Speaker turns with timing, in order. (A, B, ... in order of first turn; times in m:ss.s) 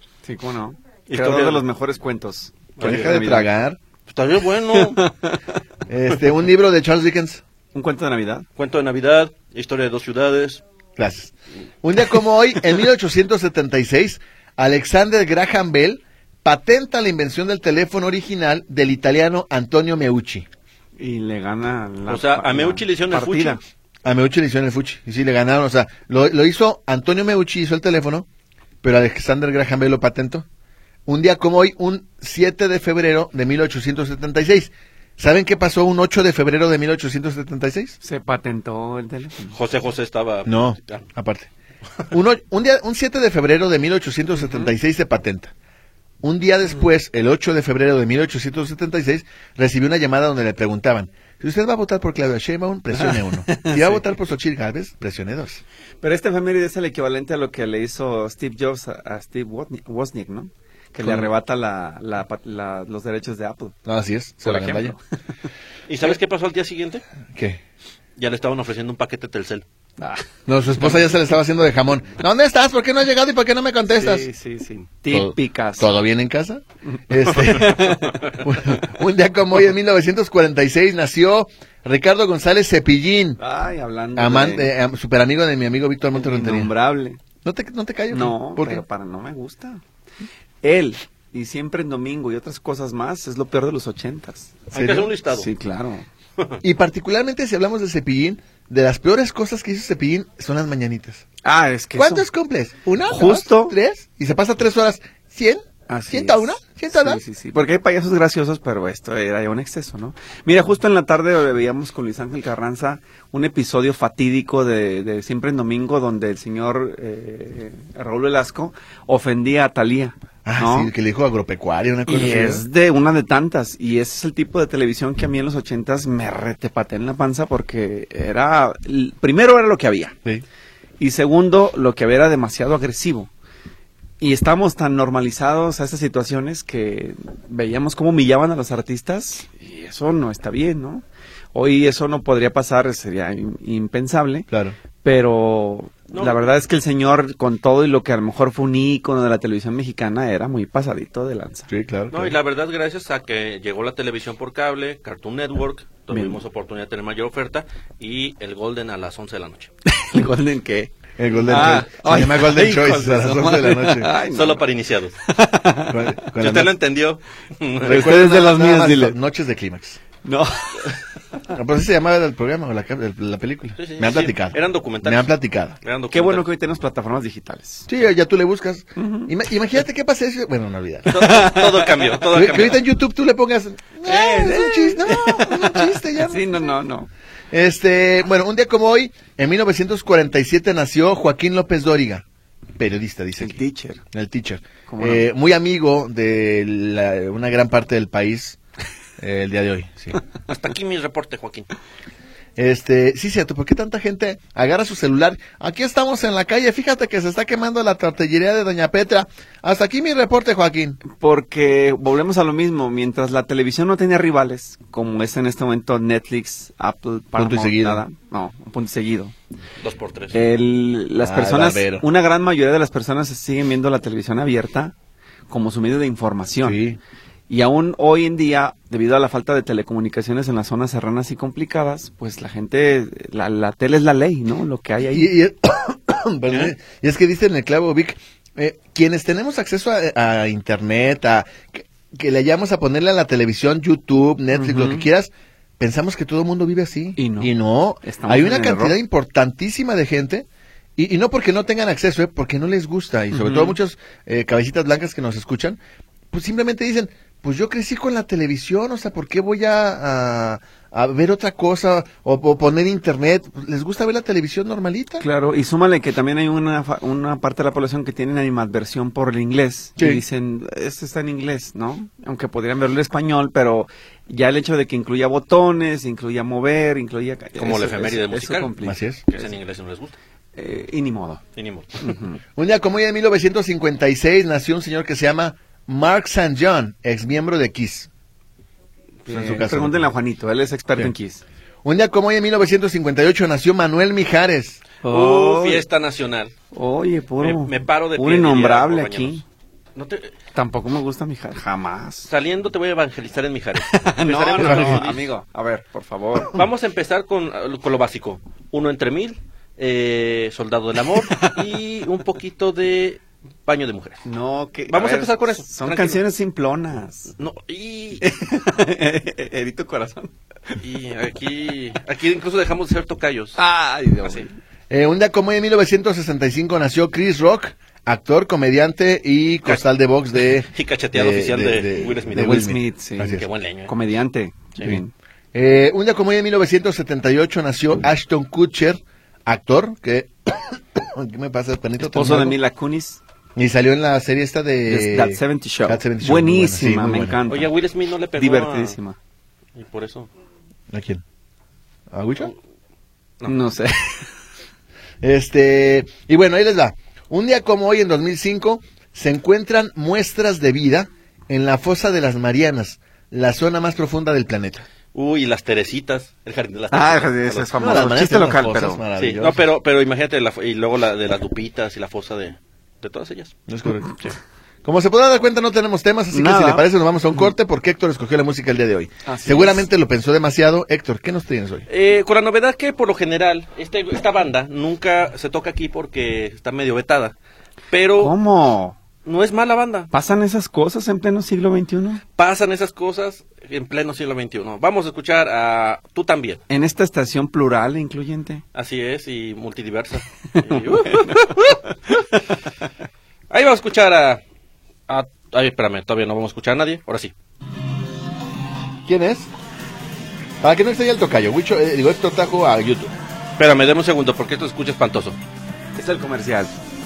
0:00.2-0:03.5 A
0:01.1-0:01.6 B
0:02.8-0:03.2 B
0:02.8-0:03.8 C
0:04.1-0:05.1 B
0:04.7-0:05.4 A
0:05.9-0:07.4 C
0:07.7-0:08.5 A
0:08.6-0:10.6 B
0:11.0-0:20.5 C
0:21.0-0:23.6 A
0:22.1-0:23.6 B
0:24.0-0:28.2 C
0:28.8-0:30.4 C
0:31.0-0:38.0 C
0:38.0-0:39.6 A
0:39.5-0:41.0 B
0:40.4-0:41.5 C
0:42.1-0:45.5 C
0:44.4-0:44.7 A
0:46.2-0:55.6 C
0:52.9-0:54.0 A
0:56.0-1:03.8 A
1:01.0-1:01.3 C
1:03.8-1:04.9 C
1:04.4-1:05.0 A
1:05.9-1:07.0 B
1:07.3-1:07.6 C
1:08.2-1:09.6 B
1:10.0-1:10.2 A
1:10.5-1:14.2 C
1:13.9-1:15.9 A
1:15.1-1:23.4 C
1:17.2-1:18.3 A
1:23.4-1:24.7 A
1:24.2-1:26.7 C
1:26.1-1:27.2 A
1:27.4-1:28.8 C
1:28.1-1:29.8 A
1:30.6-1:34.6 A
1:34.7-1:35.5 B
1:34.7-1:35.1 C
1:35.3-1:36.1 A
1:36.6-1:41.2 C
1:41.4-1:42.2 A
1:41.9-1:47.2 C
1:43.0-1:43.8 A
1:45.9-2:00.9 A
2:00.4-2:02.6 C
2:02.1-2:10.1 A
2:11.0-2:13.3 A
2:14.2-2:24.5 A
2:24.5-2:24.7 C
2:25.0-2:31.7 A
2:26.1-2:26.4 B
2:31.7-2:32.4 C
2:32.1-2:39.7 B
2:36.1-2:36.4 A
2:39.8-2:44.6 A
2:41.2-2:44.1 C
2:44.2-2:45.2 B
2:45.2-2:46.1 A
2:45.9-2:46.7 C
2:46.2-2:48.0 B
2:47.8-2:50.0 C
2:47.8-2:49.2 A
2:50.2-2:51.0 A
2:51.5-2:55.8 C
2:53.8-2:55.3 B
2:55.8-2:56.5 B
2:56.1-2:57.9 A
2:57.9-3:01.1 C
2:59.0-2:59.3 A
3:01.1-3:02.8 B
3:01.1-3:02.2 A
3:02.3-3:06.5 C
3:04.0-3:07.1 A
3:07.5-3:12.2 C
3:12.8-3:13.6 C
3:13.4-3:14.0 A
3:14.1-3:18.6 C
3:14.9-3:15.3 A
3:19.2-3:20.2 C
3:20.5-3:21.7 B
3:22.6-3:31.0 C
3:31.2-3:39.3 A
3:37.4-3:38.0 C
3:39.8-3:40.4 B
3:40.3-3:44.9 A
3:41.2-3:42.1 C
3:45.5-3:46.8 A
3:46.6-3:47.0 C
3:47.5-3:55.3 A
3:55.0-4:10.4 C
4:04.5-4:05.0 A
4:07.2-4:09.0 A
4:11.0-4:15.8 C
4:13.3-4:13.8 A
4:16.3-4:25.2 C
4:25.2-4:39.4 A
4:37.6-4:38.7 B
4:38.8-4:39.2 C
4:39.3-4:40.1 B
4:40.5-4:41.4 A
4:41.6-4:42.1 B
4:42.0-4:42.4 A
4:42.6-4:48.1 C
4:49.2-4:51.4 A
4:49.3-4:50.1 C
4:51.8-4:54.8 C
4:55.0-4:55.8 A
4:55.0-4:56.5 B
4:56.7-4:59.4 A
4:57.4-4:59.4 B
4:59.9-5:00.3 B
5:00.5-5:02.3 A
5:02.3-5:05.3 B
5:03.8-5:06.6 A
5:04.6-5:05.0 C
5:06.5-5:14.2 B
5:11.1-5:11.6 A
5:14.2-5:17.3 A
5:14.9-5:16.2 B
5:17.4-5:18.2 B
5:18.2-5:20.7 A
5:20.8-5:23.6 B
5:23.6-5:24.5 A
5:24.9-5:33.4 C
5:30.7-5:33.9 B
5:32.3-5:35.1 A
5:35.5-5:42.6 C
5:42.0-5:43.2 A
5:43.6-5:47.4 C
5:44.8-5:47.7 A
5:47.5-5:49.0 B
5:48.4-5:49.2 A
5:49.7-5:50.3 B
5:50.9-5:51.2 C
5:52.1-5:52.5 C
5:53.4-5:54.3 A
5:55.2-6:04.8 C
6:05.1-6:08.0 B
6:06.9-6:09.0 A
6:07.8-6:09.6 C
6:09.2-6:13.6 B
6:13.7-6:14.1 C
6:14.8-6:21.8 C
6:16.3-6:17.4 A
6:19.2-6:19.8 A
6:21.9-6:27.3 B
6:27.9-6:28.4 B
6:28.2-6:29.0 A
6:29.2-6:30.1 B
6:30.1-6:32.2 A
6:32.4-6:36.6 B
6:36.7-6:38.6 A
6:38.7-6:42.2 B
6:40.5-6:41.6 A
6:43.5-6:44.4 B
6:45.1-6:47.3 B
6:49.0-6:49.5 C
6:50.6-6:53.1 C
6:53.6-6:55.4 B
6:55.9-6:56.7 A